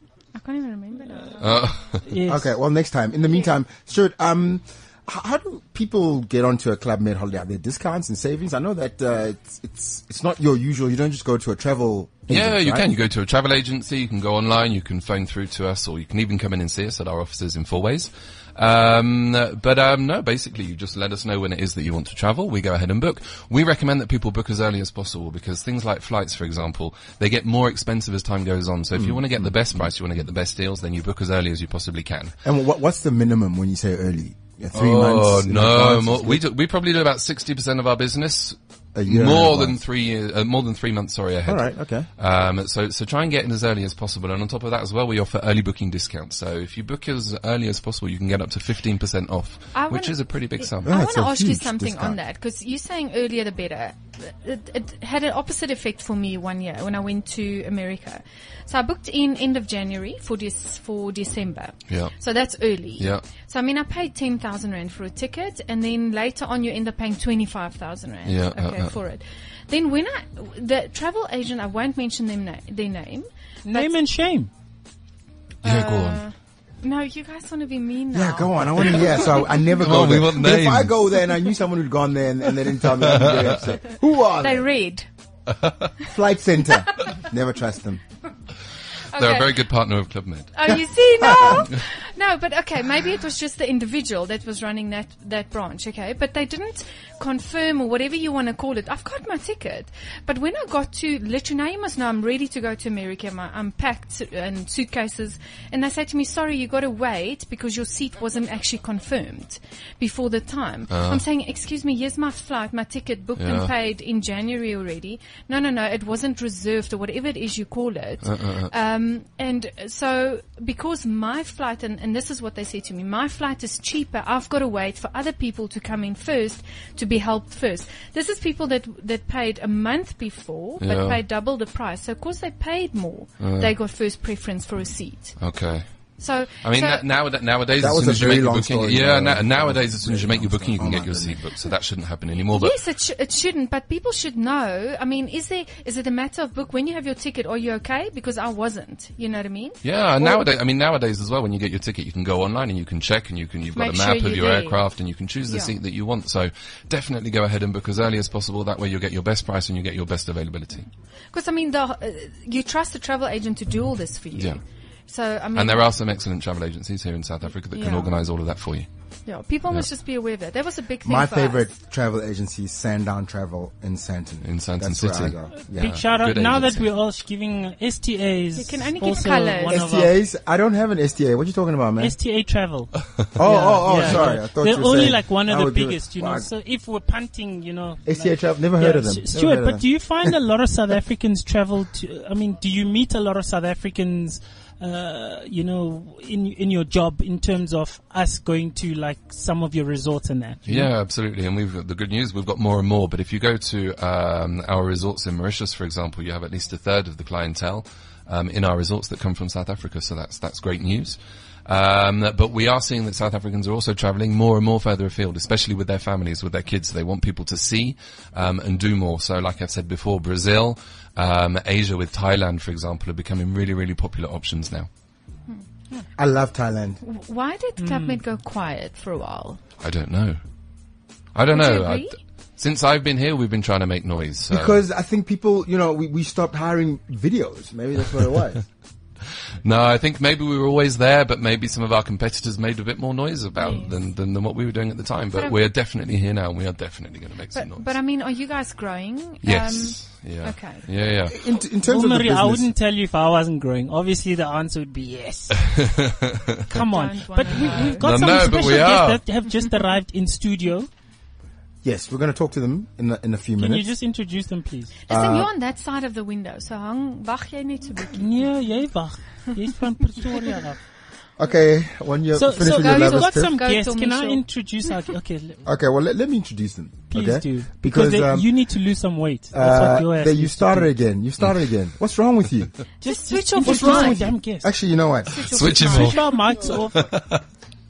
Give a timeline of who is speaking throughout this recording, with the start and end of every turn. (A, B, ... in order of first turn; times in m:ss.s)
0:00.4-0:01.7 A
0:01.4-0:02.0 B
0:02.1-0:02.5 C
0:02.3-0:12.9 D
0:12.3-0:32.4 B
0:29.0-0:29.3 D
0:32.4-0:36.4 D
0:34.8-0:50.9 B
0:39.0-0:39.8 D
0:41.5-0:42.1 D
0:49.7-1:13.9 A
0:50.8-0:52.2 D
1:08.3-1:09.0 B
1:13.6-1:14.5 C
1:15.6-1:19.3 A
1:15.6-1:16.2 B
1:18.1-1:24.7 D
1:19.7-1:21.0 B
1:23.2-1:23.5 B
1:24.4-1:25.0 A
1:25.5-1:25.9 B
1:26.1-1:28.0 D
1:29.1-1:29.6 A
1:29.2-1:30.8 B
1:30.6-2:15.4 A
1:50.9-1:51.2 B
1:53.4-1:53.7 B
1:58.2-1:58.7 B
2:10.8-2:11.2 B
2:13.4-2:13.7 B
2:15.4-2:15.9 B
2:16.2-2:17.0 A
2:16.6-2:22.8 B
2:17.8-2:21.4 D
2:22.5-2:30.4 A
2:29.8-2:40.9 B
2:33.8-2:34.8 A
2:35.5-2:35.8 A
2:41.3-2:45.9 A
2:45.6-2:48.9 B
2:47.7-2:48.2 A
2:49.3-2:51.7 A
2:51.0-2:56.0 D
2:54.4-2:56.9 B
2:55.7-3:00.2 C
2:58.6-2:59.8 A
2:59.7-3:02.2 D
3:02.0-3:20.9 C
3:03.4-3:06.5 D
3:08.1-3:10.3 D
3:20.7-3:44.9 B
3:46.2-3:47.0 D
3:47.0-3:49.6 A
3:47.8-3:48.2 C
3:49.8-3:50.4 B
3:51.4-3:54.8 B
3:51.5-3:52.2 A
3:54.5-3:58.6 D
3:59.6-4:07.9 B
4:03.6-4:04.0 A
4:07.5-4:10.9 A
4:09.4-4:11.4 B
4:11.3-4:12.7 D
4:11.8-4:15.8 C
4:15.6-4:16.6 B
4:16.7-4:20.9 C
4:16.7-4:18.1 A
4:18.0-4:19.2 B
4:21.8-4:23.9 D
4:23.6-4:25.0 C
4:25.1-4:28.3 A
4:25.1-4:25.5 D
4:28.1-4:30.8 C
4:31.4-4:33.5 D
4:32.3-4:35.6 C
4:32.6-4:34.4 A
4:35.6-4:38.5 D
4:37.1-4:40.9 C
4:39.5-4:42.7 D
4:43.0-4:44.8 C
4:43.0-4:44.3 A
4:43.6-4:45.8 D
4:45.3-4:46.7 A
4:45.5-4:47.4 B
4:45.6-4:47.1 C